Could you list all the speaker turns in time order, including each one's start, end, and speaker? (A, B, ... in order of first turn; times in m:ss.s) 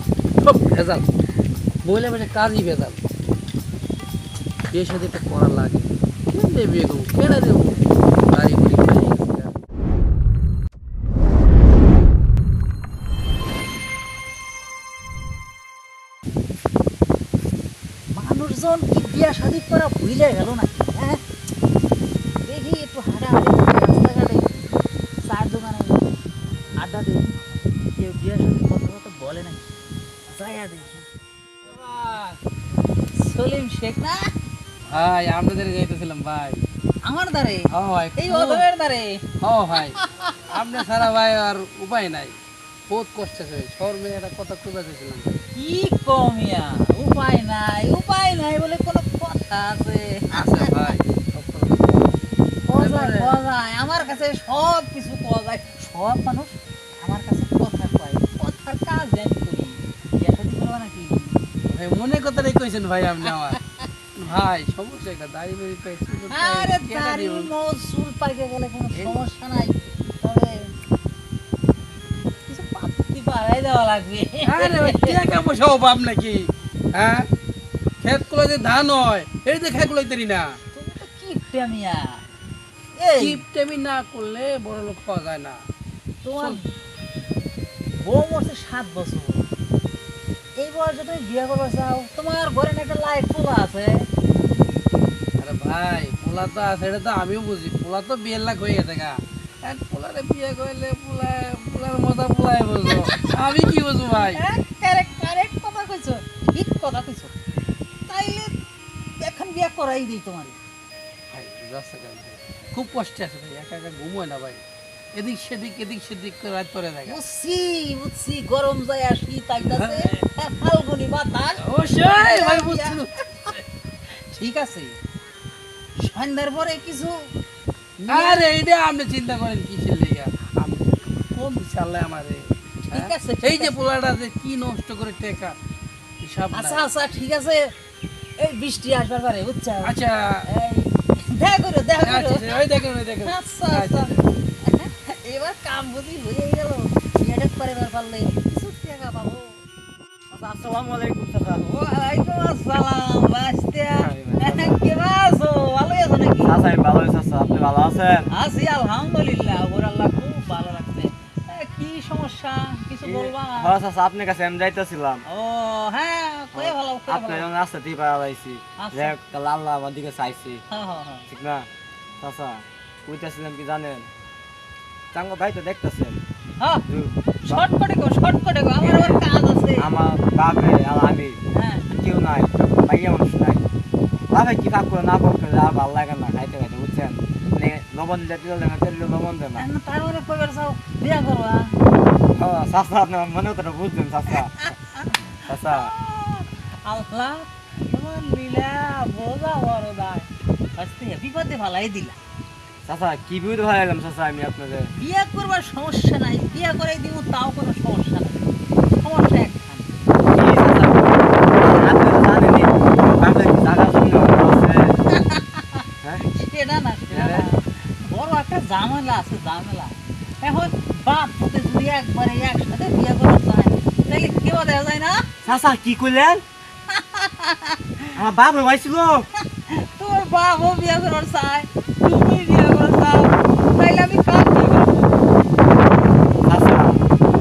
0:00.4-0:01.1 A
0:01.8-0:03.0 A
0:04.7-0:09.6 A
0:18.1-0:21.2 B
0:22.4-0:24.5 B
0:25.2-0:26.1 B
0:26.8-0:27.4 B
0:27.9-0:29.6 B
0:30.3-0:31.0 B
0:31.6-0:32.4 A
0:33.2-0:34.2 B
0:34.9-0:36.6 A
0:37.0-0:39.2 B
0:37.7-0:38.6 A
0:39.4-0:42.4 A
0:40.0-0:40.4 B
0:42.9-0:45.4 A
0:45.5-0:51.0 B
0:50.3-0:52.2 A
0:52.7-1:01.4 B
0:52.7-0:53.3 A
1:01.7-1:03.6 A
1:04.1-1:07.5 A
1:06.3-1:10.7 B
1:12.5-1:15.4 B
1:14.4-1:17.3 A
1:18.0-1:20.5 A
1:20.7-1:22.2 B
1:23.0-1:23.4 B
1:23.2-1:25.6 A
1:26.2-1:26.6 B
1:28.0-1:29.4 B
1:30.6-1:34.0 B
1:35.4-1:44.4 A
1:44.1-1:47.3 B
1:48.1-1:48.5 B
1:49.2-1:50.6 B
1:51.3-1:54.6 A
1:55.1-1:57.2 A
1:57.0-2:03.0 B
1:59.6-2:00.1 A
2:01.6-2:03.6 A
2:04.1-2:05.0 B
2:06.0-2:07.1 B
2:08.0-2:15.6 A
2:08.1-2:08.5 B
2:12.9-2:13.8 B
2:16.2-2:16.8 A
2:16.5-2:17.6 B
2:18.4-2:20.0 B
2:19.8-2:20.4 A
2:20.5-2:22.6 B
2:22.0-2:24.2 A
2:23.2-2:24.1 B
2:24.6-2:29.6 B
2:30.3-2:31.6 C
2:31.6-2:36.6 B
2:33.9-2:34.8 C
2:36.4-2:38.3 C
2:38.3-2:43.7 B
2:43.0-2:45.2 C
2:45.3-2:47.4 B
2:46.5-2:50.6 C
2:48.8-2:49.1 B
2:50.7-2:51.3 B
2:51.3-2:51.7 C
2:52.2-2:54.1 C
2:55.1-2:56.2 C
2:56.6-2:56.8 B
2:56.9-2:57.6 C
2:57.4-2:59.9 B
2:58.8-2:59.2 C
2:59.8-3:03.6 C
3:01.5-3:01.8 B
3:04.3-3:09.6 C
3:09.6-3:11.7 B
3:12.3-3:14.5 C
3:14.3-3:22.2 B
3:15.5-3:15.9 C
3:22.8-3:24.9 C
3:25.0-3:30.0 B
3:30.3-3:35.0 C
3:35.1-3:45.3 B
3:37.1-3:37.5 C
3:45.4-3:46.4 C
3:46.9-3:48.1 B
3:48.1-3:49.3 C
3:49.7-3:55.2 B
3:56.4-3:57.0 C